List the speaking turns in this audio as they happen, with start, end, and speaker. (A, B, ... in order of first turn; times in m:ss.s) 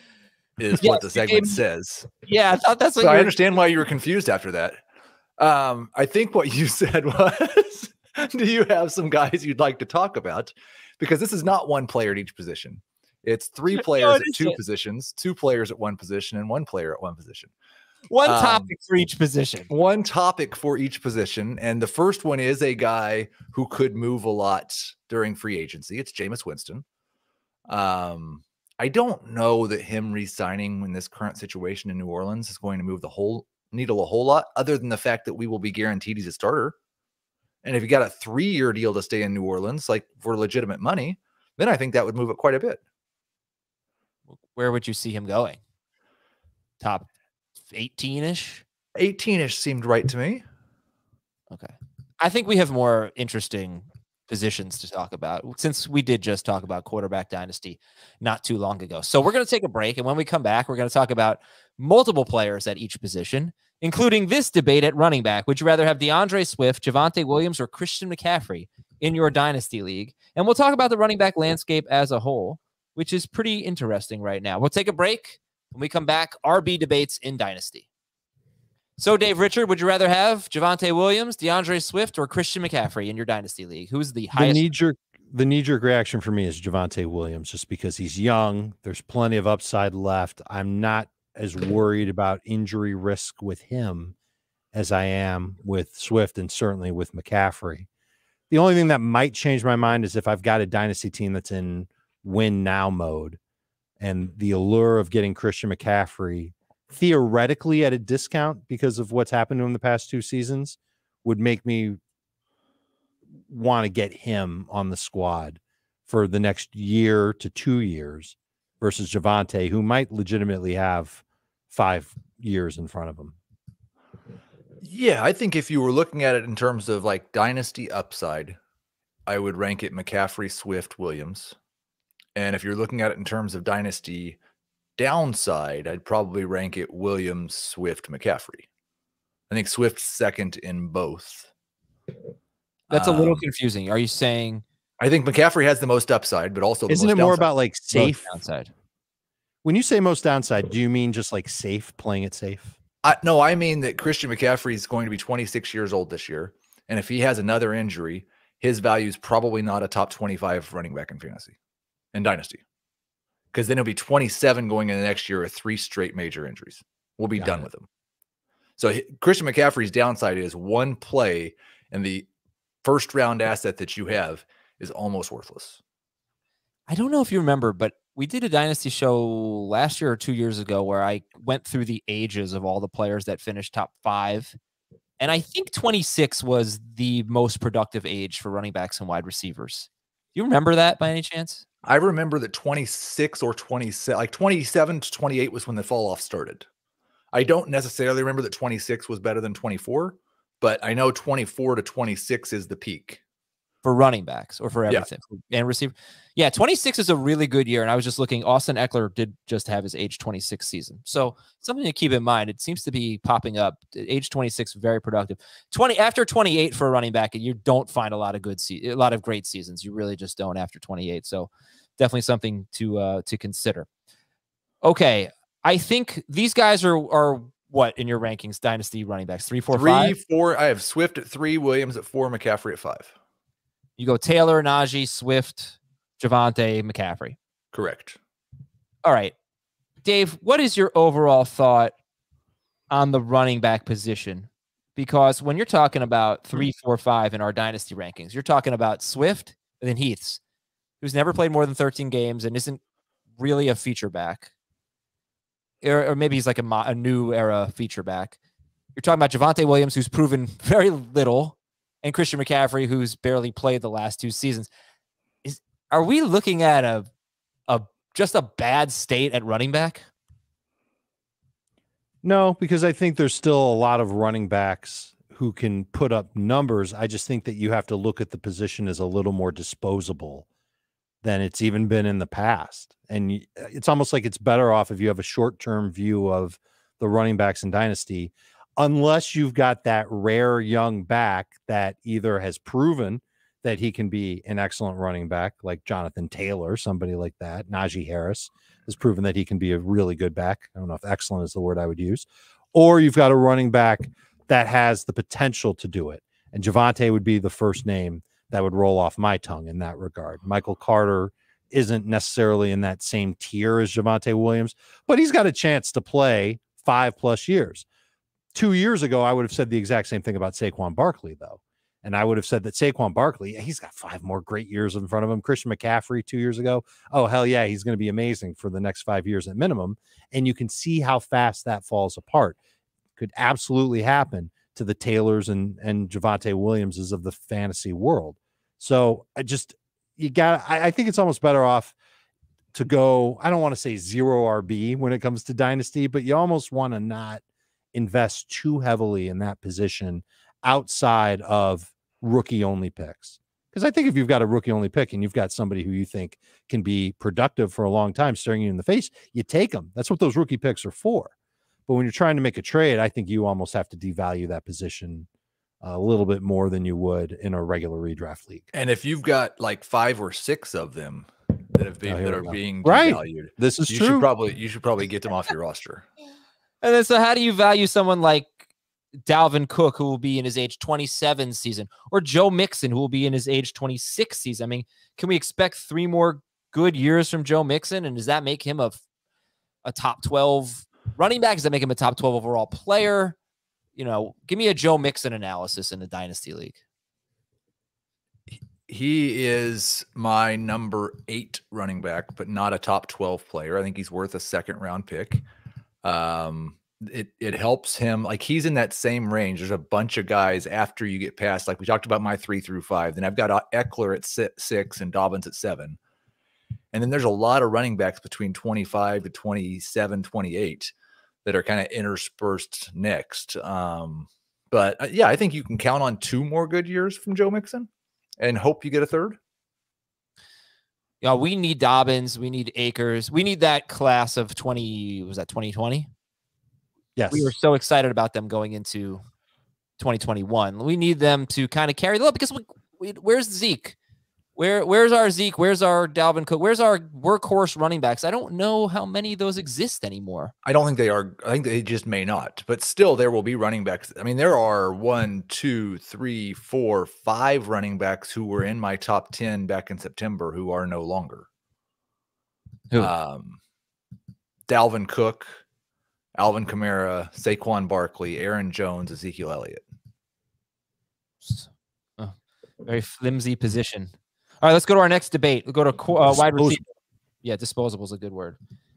0:00.6-0:02.1 A
0:00.8-0:01.6 B
0:02.2-0:03.3 B
0:03.0-0:04.8 A
0:05.4-0:17.5 A
0:13.7-0:14.6 B
0:18.1-0:19.7 B
0:18.2-0:18.7 A
0:19.7-0:26.8 A
0:27.7-0:36.8 A
0:37.6-0:42.8 A
0:44.5-0:45.6 B
0:46.8-0:47.1 B
0:47.7-0:48.6 B
0:49.0-0:50.4 A
0:51.5-1:17.9 B
1:19.0-1:24.6 B
1:24.4-1:34.2 C
1:34.7-1:37.9 C
1:38.5-1:43.4 C
1:44.0-1:52.0 C
1:53.5-2:03.4 C
2:04.8-2:08.6 A
2:09.3-2:11.6 A
2:12.4-2:14.4 A
2:15.0-2:18.7 A
2:19.5-2:21.5 A
2:22.9-2:23.4 A
2:22.9-2:24.6 B
2:25.0-2:27.5 A
2:26.9-2:28.3 C
2:27.9-2:28.7 B
2:29.6-2:32.8 C
2:33.0-2:41.6 A
2:42.1-2:42.6 A
2:43.5-2:47.9 A
2:47.4-2:47.6 B
2:48.8-2:52.3 A
2:52.8-2:55.8 A
2:56.9-3:04.6 B
3:05.2-3:11.6 B
3:11.8-3:16.7 A
3:17.3-3:23.2 A
3:23.8-3:43.9 B
3:44.8-3:50.1 B
3:49.7-3:53.1 A
3:54.0-3:57.4 B
3:57.7-3:58.2 A
3:59.0-3:59.3 B
4:00.0-4:01.9 B
4:02.9-4:10.4 B
4:11.0-4:12.8 B
4:13.4-4:14.5 B
4:15.8-4:18.4 B
4:19.0-4:24.7 B
4:25.4-4:27.1 B
4:27.7-4:30.1 B
4:32.2-4:40.5 C
4:41.2-5:17.8 C
5:18.5-5:32.6 C
5:33.2-5:42.0 C
5:42.7-5:47.4 C
5:47.9-6:01.3 C
6:01.9-6:05.3 C
6:05.8-6:08.7 C
6:08.7-6:16.1 A
6:12.0-6:14.3 C
6:16.8-6:18.6 B
6:19.3-6:29.0 B
6:29.8-6:33.4 B
6:34.0-6:36.8 B
6:38.5-6:45.4 A
6:46.0-6:56.0 A
6:56.9-7:00.9 A
7:01.4-7:09.4 A
7:11.2-7:16.1 B
7:17.2-7:17.5 C
7:17.3-7:19.2 B
7:20.0-7:24.0 B
7:24.6-7:30.5 B
7:30.6-7:41.5 A
7:43.0-7:43.6 A
7:44.7-7:45.6 A
7:46.4-7:49.8 A
7:51.4-7:52.3 B
7:52.8-7:56.9 B
7:56.2-7:56.8 C
7:57.4-7:58.6 B